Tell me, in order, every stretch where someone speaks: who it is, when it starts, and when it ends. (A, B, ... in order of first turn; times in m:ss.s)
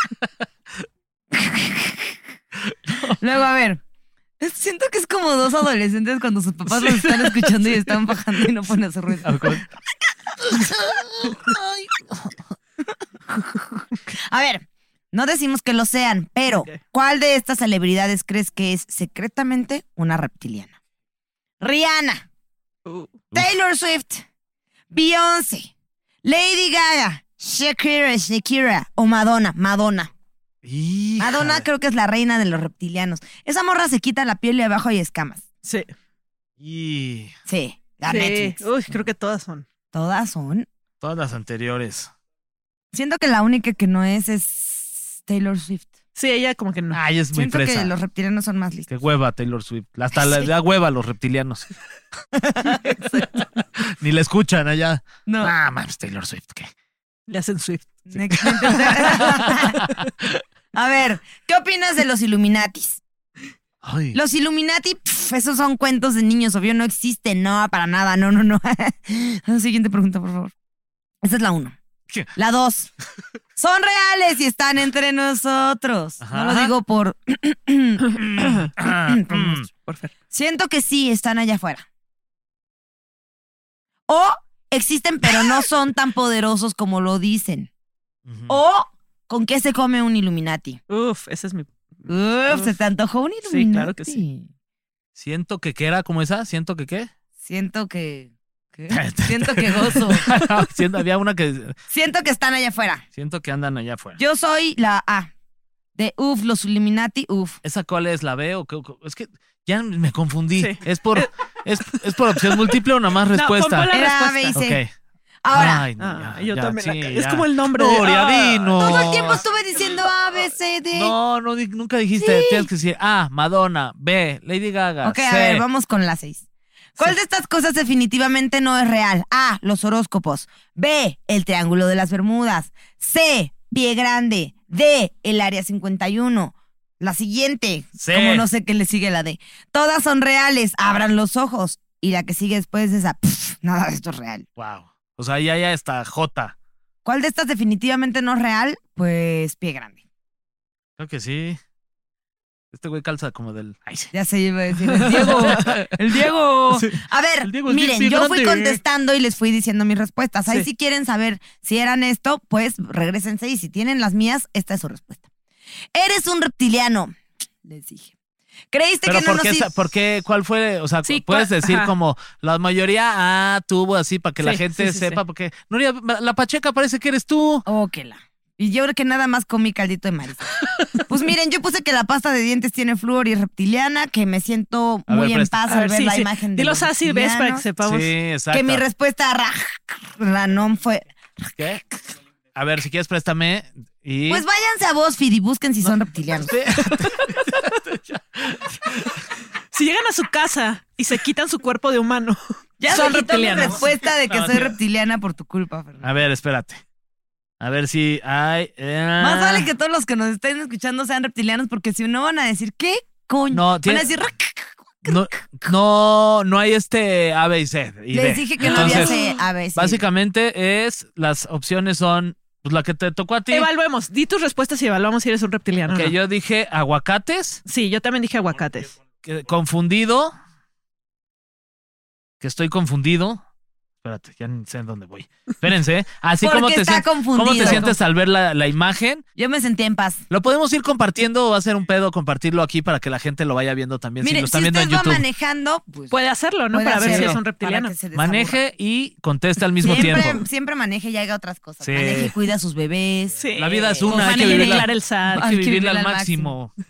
0:01.3-0:02.1 A
0:03.2-0:03.8 A
0:04.4-0:09.6 A
0:06.7-0:07.5 B
0:09.2-0:09.6 B
0:10.4-0:12.4 B
0:14.1-0:20.7 A
0:16.5-0:16.8 C
0:21.6-0:22.2 A
0:22.8-0:23.2 C
0:23.3-0:24.2 A
0:24.9-0:25.7 A
0:26.2-0:30.1 A
0:30.6-0:31.6 B
0:31.2-0:35.4 A
0:35.6-0:35.9 C
0:36.6-0:37.3 B
0:37.5-0:39.0 A
0:38.0-0:39.6 C
0:39.9-0:40.7 A
0:41.0-0:42.1 B
0:42.9-0:45.9 A
0:46.2-0:47.0 C
0:46.9-0:47.9 B
0:47.3-0:48.9 A
0:48.9-0:51.7 B
0:50.2-0:50.5 A
0:52.4-0:53.3 A
0:53.8-0:56.7 B
0:55.2-0:55.5 A
0:57.3-0:58.0 C
0:58.0-0:59.8 A
0:58.3-0:59.5 B
0:58.7-0:59.2 C
1:00.7-1:03.0 A
1:03.8-1:04.2 B
1:04.1-1:10.5 A
1:11.2-1:11.7 A
1:12.3-1:12.9 A
1:13.6-1:19.6 A
1:16.2-1:16.7 B
1:18.4-1:19.7 B
1:19.8-1:20.1 C
1:20.3-1:21.8 A
1:24.1-1:27.7 A
1:28.2-1:28.6 B
1:28.5-1:30.8 A
1:30.9-1:32.8 C
1:32.1-1:34.5 A
1:33.5-1:34.2 C
1:35.2-1:37.1 B
1:37.4-1:40.3 A
1:38.9-1:41.7 B
1:41.9-1:43.0 A
1:43.2-1:44.2 B
1:44.2-1:45.3 A
1:46.0-1:47.6 A
1:47.6-1:54.9 B
1:50.6-1:51.3 C
1:51.9-1:52.8 C
1:53.3-1:54.5 C
1:53.9-1:54.8 A
1:55.4-1:55.8 A
1:55.5-1:59.4 B
1:56.0-1:58.9 C
1:58.8-2:01.1 A
2:00.9-2:05.6 B
2:02.2-2:02.7 A
2:05.0-2:06.4 A
2:07.0-2:24.4 A
2:18.0-2:18.5 B
2:24.6-2:26.5 B
2:27.0-2:30.0 A
2:31.0-2:31.6 B
2:32.7-2:34.1 B
2:34.1-2:45.2 A
2:35.1-2:35.8 B
2:35.2-2:35.8 C
2:36.7-2:38.8 B
2:45.9-2:48.1 A
2:48.7-2:49.9 A
2:49.0-2:57.6 B
2:51.0-2:51.9 C
2:54.4-2:55.2 C
2:57.6-3:00.5 A
3:01.0-3:07.6 A
3:05.1-3:05.6 B
3:05.7-3:08.1 C
3:07.8-3:08.8 B
3:08.5-3:11.5 A
3:11.6-3:11.9 B
3:12.5-3:14.4 B
3:14.3-3:16.5 A
3:15.8-3:19.2 B
3:16.8-3:17.6 C
3:19.7-3:24.0 C
3:22.8-3:26.2 A
3:24.3-3:24.8 B
3:26.0-3:26.8 B
3:27.6-3:29.7 B
3:29.2-3:35.5 A
3:33.5-3:34.1 B
3:35.0-3:39.2 B
3:38.1-3:40.0 A
3:38.6-3:39.3 C
3:39.7-3:43.7 B
3:43.5-3:46.1 C
3:45.9-3:47.6 B
3:47.6-3:48.9 C
3:49.2-3:50.3 B
3:52.4-3:53.4 B
3:54.0-3:59.2 B
3:56.4-3:57.9 A
3:57.6-3:57.9 C
3:59.4-4:00.2 A
4:00.3-4:05.2 B
4:04.2-4:06.2 A
4:06.1-4:07.9 C
4:06.7-4:08.6 A
4:07.0-4:07.4 B
4:08.1-4:10.4 B
4:09.8-4:13.4 A
4:11.8-4:12.3 B
4:13.4-4:15.5 C
4:13.6-4:16.7 B
4:14.0-4:16.5 A